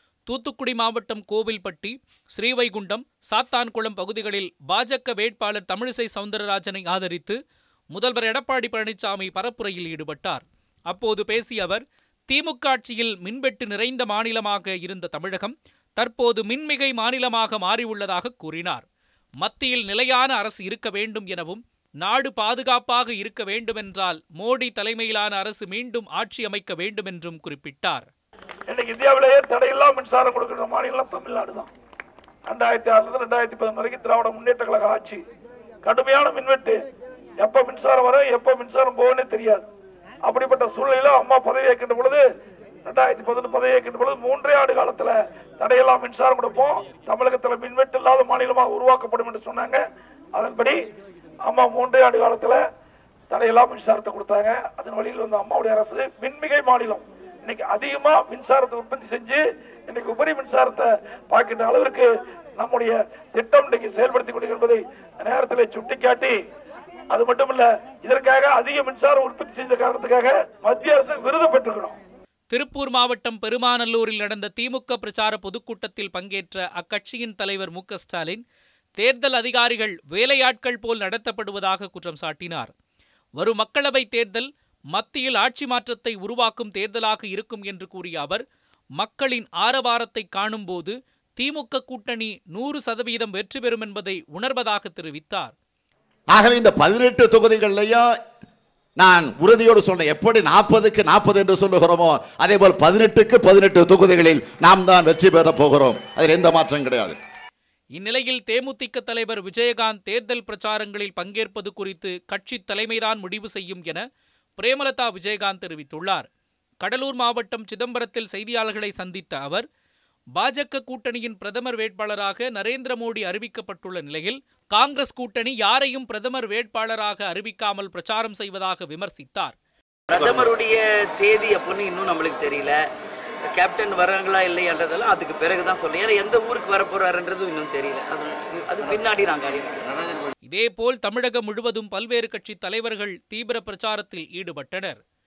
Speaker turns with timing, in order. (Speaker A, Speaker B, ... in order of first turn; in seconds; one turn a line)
Speaker A: 0.3-7.4
Speaker A: 7.9-18.8
Speaker A: 19.4-28.1
Speaker B: 28.7-31.7
Speaker B: 32.5-35.2
Speaker B: 35.8-36.8
Speaker B: 37.4-39.6
Speaker B: 40.2-42.2
Speaker B: 42.9-49.8
Speaker B: 50.4-50.8
Speaker B: 51.5-52.6
Speaker B: 53.3-66.3
Speaker B: 67.1-72.0
Speaker A: 72.5-78.4
Speaker A: 79.0-82.7
Speaker A: 83.4-88.4
Speaker A: 89.0-95.5
Speaker C: 96.3-98.1
Speaker C: 99.0-107.2
Speaker A: 108.0-114.0
Speaker A: 114.6-116.3
Speaker A: 116.8-119.7
Speaker A: 120.4-129.6
Speaker D: 130.1-132.8
Speaker D: 133.6-140.2
Speaker A: 140.5-145.0